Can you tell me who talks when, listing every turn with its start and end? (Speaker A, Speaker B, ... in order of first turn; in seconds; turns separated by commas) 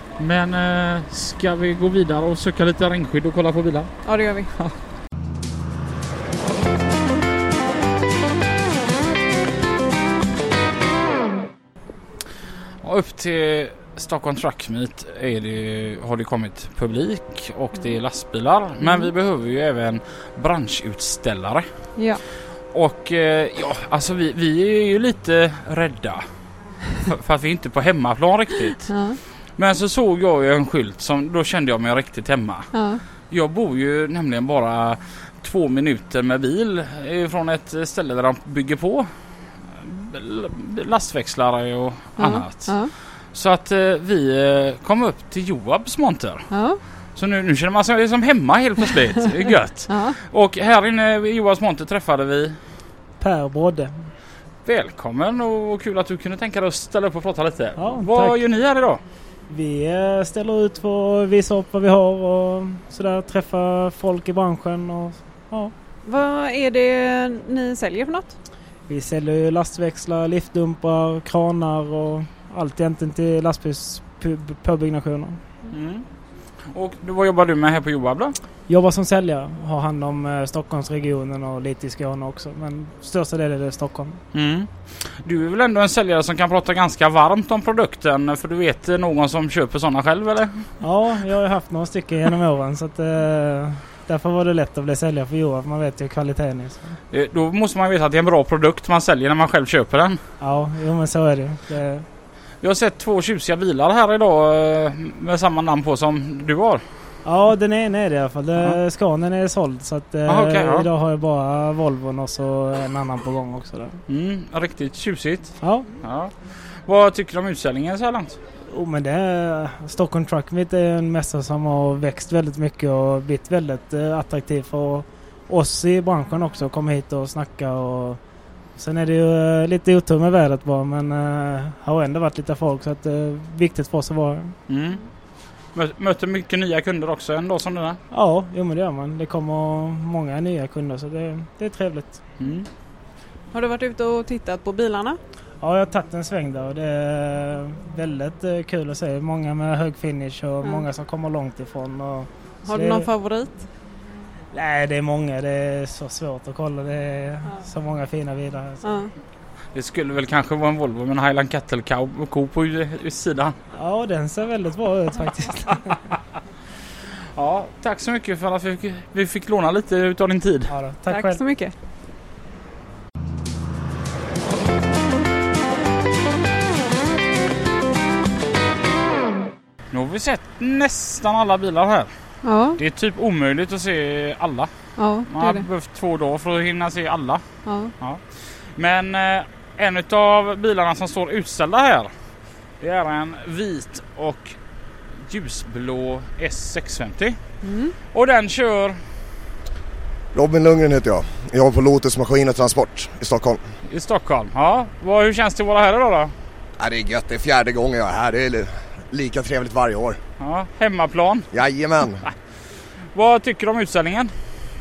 Speaker A: 0.2-3.9, Speaker B: 4.0-4.5, Speaker A: 12.8-21.7, Speaker B: 18.8-19.1, Speaker B: 22.0-22.2, Speaker A: 22.7-26.2, Speaker A: 27.0-28.9, Speaker B: 28.9-29.2, Speaker A: 29.6-32.7, Speaker B: 32.7-33.0, Speaker A: 33.3-39.1, Speaker A: 39.8-42.8, Speaker B: 42.2-42.9, Speaker A: 43.3-46.5, Speaker B: 46.5-46.8, Speaker A: 47.1-52.6, Speaker B: 49.9-50.2, Speaker C: 53.2-54.0, Speaker A: 54.7-59.0, Speaker C: 57.8-58.4, Speaker C: 59.5-65.7, Speaker B: 66.0-68.4, Speaker C: 68.9-75.4, Speaker A: 75.7-76.0, Speaker A: 76.7-78.3, Speaker C: 78.7-84.2, Speaker A: 84.3-90.7, Speaker C: 90.8-97.0, Speaker A: 97.1-100.2, Speaker C: 100.4-102.1, Speaker A: 102.6-106.8, Speaker C: 107.2-114.0, Speaker A: 110.3-110.9, Speaker A: 114.1-118.4, Speaker C: 115.6-115.9, Speaker C: 118.7-128.2, Speaker C: 128.8-134.5, Speaker A: 134.7-135.0, Speaker A: 135.8-138.0, Speaker C: 138.1-142.2, Speaker A: 142.4-142.7, Speaker B: 143.5-145.2, Speaker C: 145.6-153.1, Speaker B: 152.7-153.6, Speaker C: 154.5-158.8, Speaker B: 158.8-159.1, Speaker A: 159.8-163.6, Speaker C: 163.7-166.0, Speaker A: 167.4-170.7, Speaker C: 170.7-171.4, Speaker B: 171.1-171.7, Speaker A: 179.9-182.1, Speaker B: 182.4-182.8, Speaker A: 182.8-184.7, Speaker B: 185.0-185.7, Speaker A: 185.3-187.4, Speaker B: 187.7-187.9, Speaker A: 188.8-192.1, Speaker A: 192.8-194.6, Speaker A: 195.3-197.4, Speaker B: 197.6-198.0, Speaker A: 198.1-199.0, Speaker D: 200.3-203.6, Speaker A: 203.9-206.3, Speaker D: 206.8-210.2, Speaker A: 210.4-211.5, Speaker D: 211.5-212.3, Speaker A: 213.1-214.3